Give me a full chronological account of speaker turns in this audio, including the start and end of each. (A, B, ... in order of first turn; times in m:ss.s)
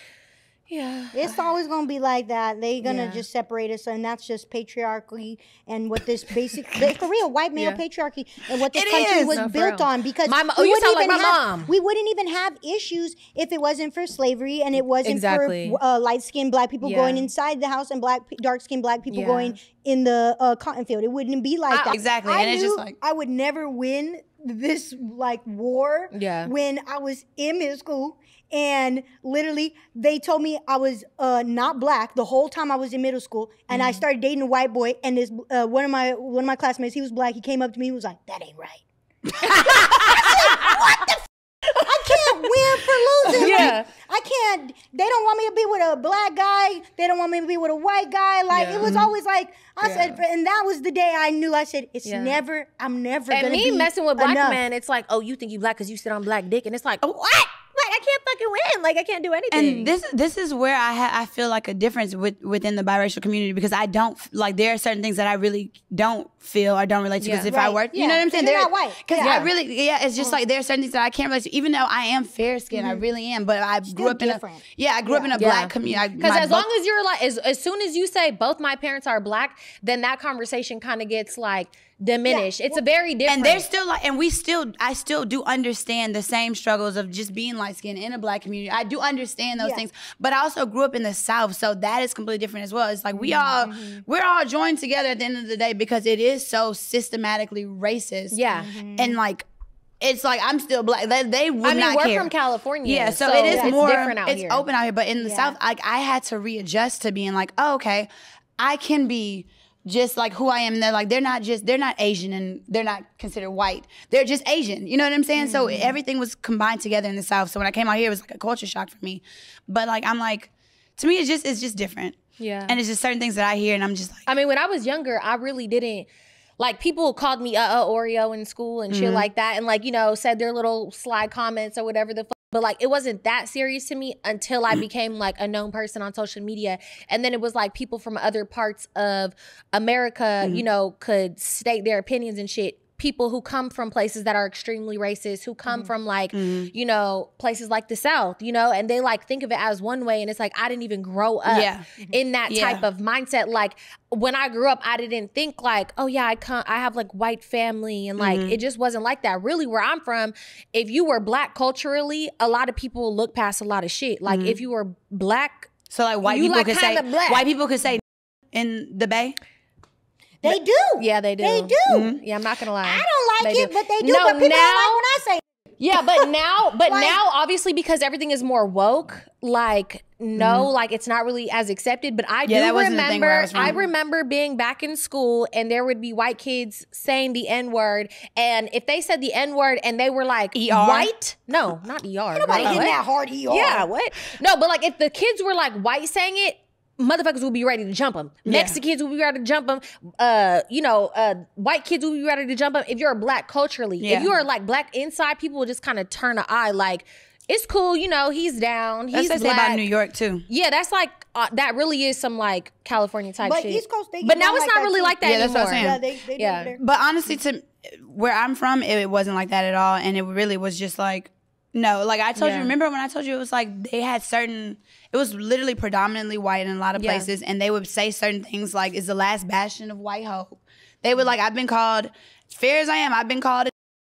0:00.7-0:01.3 A
0:01.1-0:38.8 B
0:02.8-0:03.2 A
0:07.6-0:07.8 A
0:08.7-0:09.4 C
0:09.3-0:11.7 A
0:15.0-0:15.8 A
0:16.8-0:17.2 A
0:19.1-0:19.5 A
0:21.7-0:22.0 A
0:21.9-0:23.0 C
0:26.1-0:26.5 A
0:33.7-0:34.0 A
0:39.4-0:39.9 C
0:39.4-0:54.6 B
0:39.4-0:40.8 A
0:41.8-0:42.6 A
0:43.2-0:43.9 A
0:43.4-0:43.7 C
0:48.5-0:48.9 A
0:48.8-0:49.1 C
0:49.8-0:50.2 A
0:52.0-0:52.4 A
0:53.3-0:59.9 A
0:59.5-1:16.6 C
1:07.2-1:07.5 A
1:07.5-1:09.4 B
1:09.2-1:09.5 A
1:12.7-1:13.0 B
1:13.8-1:15.3 B
1:15.4-1:23.7 A
1:22.2-1:22.8 B
1:23.3-1:38.4 C
1:29.6-1:29.8 B
1:33.1-1:34.0 B
1:38.3-1:38.7 A
1:38.5-1:39.2 B
1:39.0-1:39.4 C
1:40.0-1:42.3 C
1:41.6-1:44.6 A
1:42.8-2:04.3 C
1:43.5-1:43.8 B
1:45.2-1:45.6 B
2:02.4-2:02.8 A
2:04.3-2:06.1 A
2:06.6-2:45.7 A
2:08.9-2:09.3 C
2:26.3-2:26.7 C
2:31.5-2:31.8 C
2:32.5-2:32.8 C
2:38.2-2:38.6 C
2:44.3-2:44.6 C
2:45.9-2:49.4 C
2:46.2-2:47.5 A
2:50.4-2:52.2 B
2:50.5-2:55.0 A
2:51.9-2:52.2 C
2:52.8-2:56.3 B
2:55.8-3:13.0 A
2:56.8-2:57.2 B
3:00.3-3:00.7 C
3:02.5-3:03.8 C
3:03.6-3:03.9 B
3:10.5-3:11.1 C
3:12.3-3:13.9 B
3:12.5-3:12.8 C
3:13.5-3:29.8 A
3:18.4-3:18.8 C
3:24.0-3:24.3 C
3:29.1-3:30.4 C
3:30.5-3:36.7 A
3:33.4-3:36.8 B
3:35.2-3:36.0 C
3:36.8-3:53.7 C
3:42.4-3:42.7 A
3:47.0-3:47.3 A